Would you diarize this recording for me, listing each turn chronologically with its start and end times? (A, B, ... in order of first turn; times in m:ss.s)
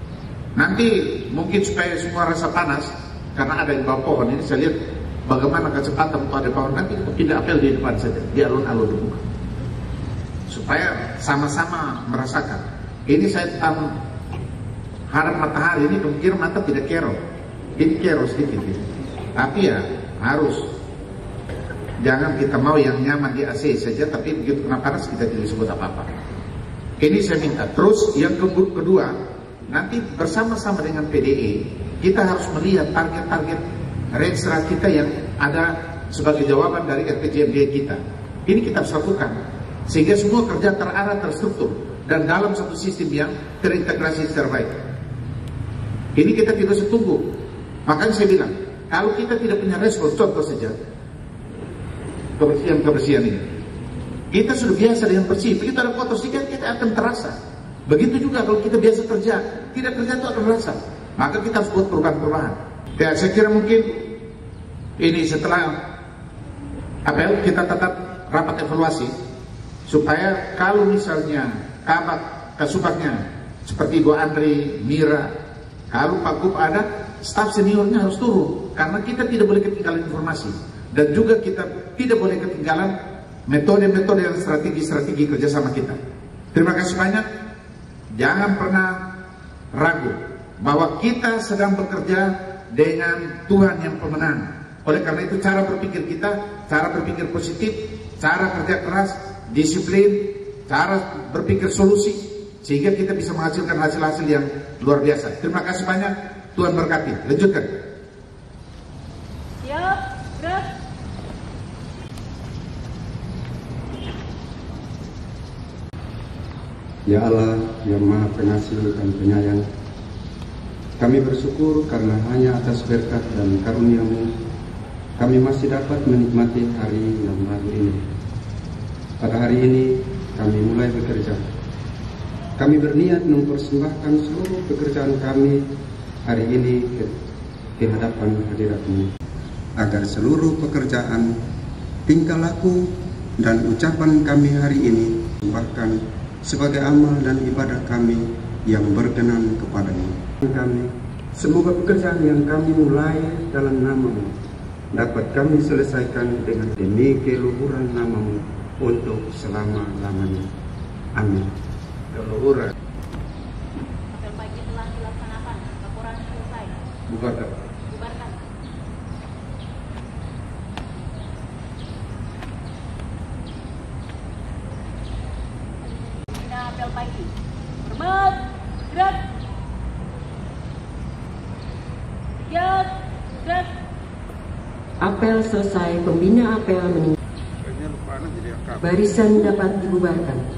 0:00.6-0:04.8 A
0:05.3-0:09.2 A
0:10.5-0:13.9 A
0:15.1-0:17.2 A
0:17.8-0:18.8 A
0:19.4-0:20.7 A
0:22.0-0:26.1 A
0:27.0-0:29.2 A
0:29.7-0:44.7 A
0:46.2-0:50.8 A
0:52.4-0:53.5 A
0:54.3-1:04.0 A
1:05.0-1:05.8 A
1:07.0-1:09.1 A
1:09.9-1:15.3 A
1:15.9-1:23.0 A
1:23.5-1:26.0 A
1:26.5-1:27.2 A
1:28.1-1:29.1 A
1:29.7-1:47.7 A
1:49.6-1:50.7 B
1:57.1-1:59.6 C
2:01.0-2:04.3 C
2:05.2-2:08.0 C
2:09.2-2:11.4 C
2:12.6-2:15.6 C
2:16.3-2:17.1 C
2:17.8-2:19.1 C
2:19.8-2:21.4 C
2:22.1-2:34.3 C
2:35.0-2:40.5 C
2:41.2-2:41.5 C
2:42.1-2:42.7 A
2:44.1-2:46.8 B
2:47.1-2:47.5 A
2:47.9-2:48.4 B
2:56.3-2:57.3 B
2:57.8-2:59.2 B
3:02.4-3:03.7 B
3:05.0-3:07.2 D
3:08.8-3:10.4 D